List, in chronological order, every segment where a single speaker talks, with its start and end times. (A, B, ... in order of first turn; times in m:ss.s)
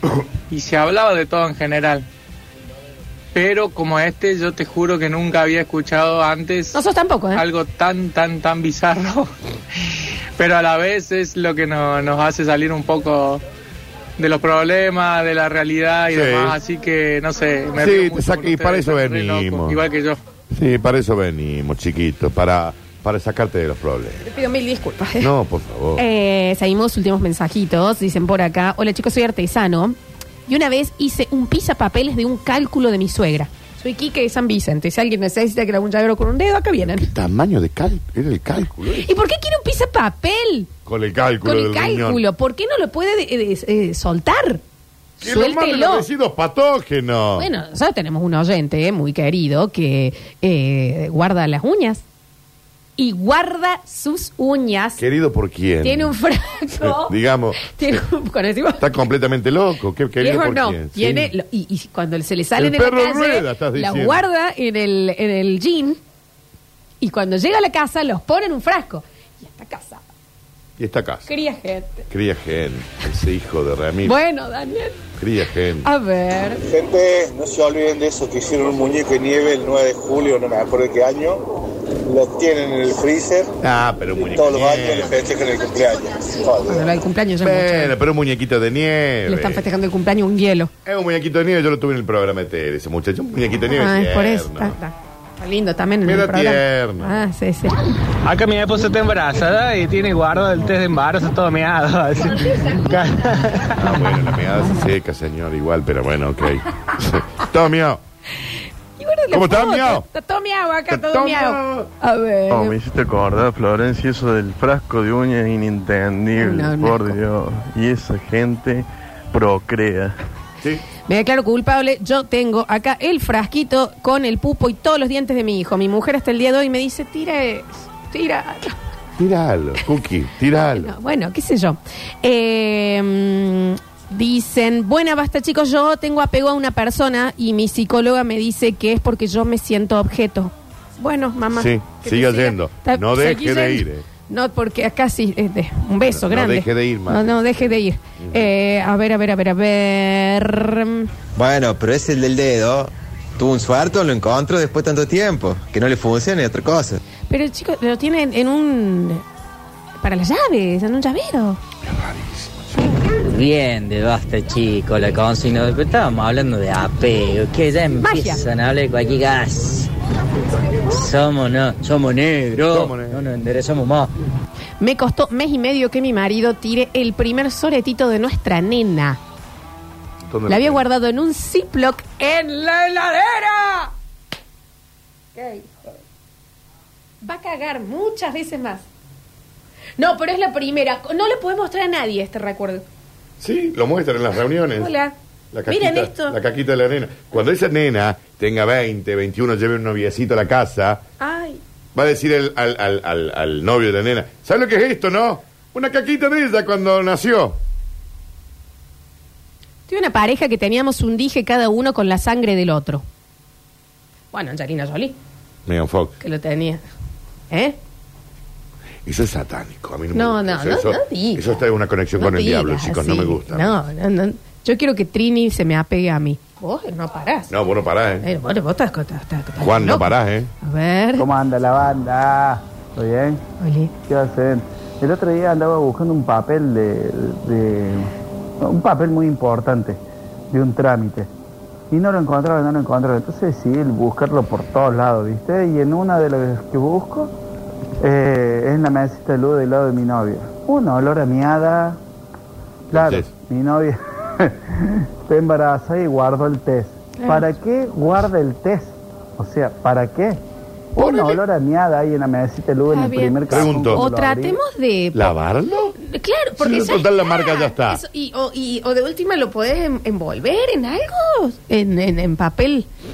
0:00.5-0:02.0 A
0:03.3-0:06.8 A
0:06.7-0:07.4 B
0:07.3-0:09.3 A
0:10.4-0:13.4 A
0:14.2-0:20.2 A
0:16.1-0:16.6 C
0:17.8-0:19.8 C
0:20.5-0:24.2 C
0:24.2-0:25.3 B
0:25.2-0:26.0 C
0:26.0-0:37.1 B
0:36.8-0:39.1 C
0:38.9-0:40.7 B
0:40.8-0:42.2 C
0:41.4-0:44.6 B
0:45.2-0:46.0 B
0:45.2-0:47.5 C
0:47.4-0:52.0 B
0:53.0-0:55.0 B
0:55.0-0:56.1 C
0:55.8-0:58.8 B
0:56.8-0:58.0 C
0:58.8-1:01.3 C
1:00.2-1:06.0 B
1:02.6-1:04.2 C
1:07.0-1:10.0 B
1:10.8-1:11.3 C
1:11.3-1:12.1 B
1:12.1-1:14.2 C
1:14.0-1:15.0 B
1:15.2-1:15.9 C
1:15.8-1:16.6 B
1:16.6-1:21.4 D
1:22.0-1:23.5 D
1:23.6-1:25.2 C
1:24.3-1:26.8 D
1:26.6-1:27.9 B
1:27.4-1:29.6 C
1:29.3-1:30.7 B
1:30.8-1:34.8 C
1:33.7-1:37.9 B
1:36.0-1:37.1 C
1:38.2-1:43.7 E
1:42.3-1:42.9 B
1:43.8-1:48.0 C
1:49.0-1:52.8 B
1:49.3-1:50.0 C
1:50.9-1:51.9 C
1:52.5-2:00.2 F
1:56.4-1:57.2 B
2:01.1-2:08.7 B
2:09.2-2:10.9 C
2:10.8-2:31.1 B
2:21.5-2:24.0 C
2:26.1-2:28.5 C
2:31.4-2:37.0 G
2:37.3-2:39.2 B
2:40.0-2:41.6 B
2:41.8-2:42.9 C
2:43.2-2:49.9 H
2:48.0-2:48.4 B
2:50.9-2:54.1 H
2:52.6-2:53.2 C
2:54.8-2:59.2 B
3:00.2-3:00.8 C
3:00.5-3:03.9 B
3:05.4-3:05.7 B
3:07.2-3:08.8 B
3:10.0-3:12.8 B
3:13.4-3:14.9 C
3:14.8-3:15.1 B
3:15.5-3:21.0 C
3:15.7-3:16.4 B
3:21.2-3:21.6 B
3:21.9-3:27.6 C
3:29.9-3:33.0 B
3:34.3-3:35.2 B
3:35.7-3:36.1 C
3:36.2-3:36.8 B
3:37.5-3:37.8 B
3:39.0-3:43.8 C
3:40.1-3:41.5 B
3:42.2-3:47.5 B
3:47.5-3:48.2 C
3:48.2-3:51.3 B
3:49.6-3:50.5 C
3:51.2-3:53.4 I
3:53.6-3:53.9 B
3:54.1-3:58.1 I
3:58.6-4:00.0 I
4:00.5-4:01.3 I
4:01.9-4:07.3 I
4:08.0-4:12.0 I
4:12.9-4:13.3 C
4:12.9-4:14.6 I
4:15.2-4:20.4 I
4:17.2-4:17.5 B
4:21.0-4:24.6 I
4:21.0-4:21.4 C
4:22.9-4:25.3 B
4:23.5-4:24.1 C
4:25.1-4:25.9 C
4:26.0-4:32.9 B
4:26.6-4:28.0 C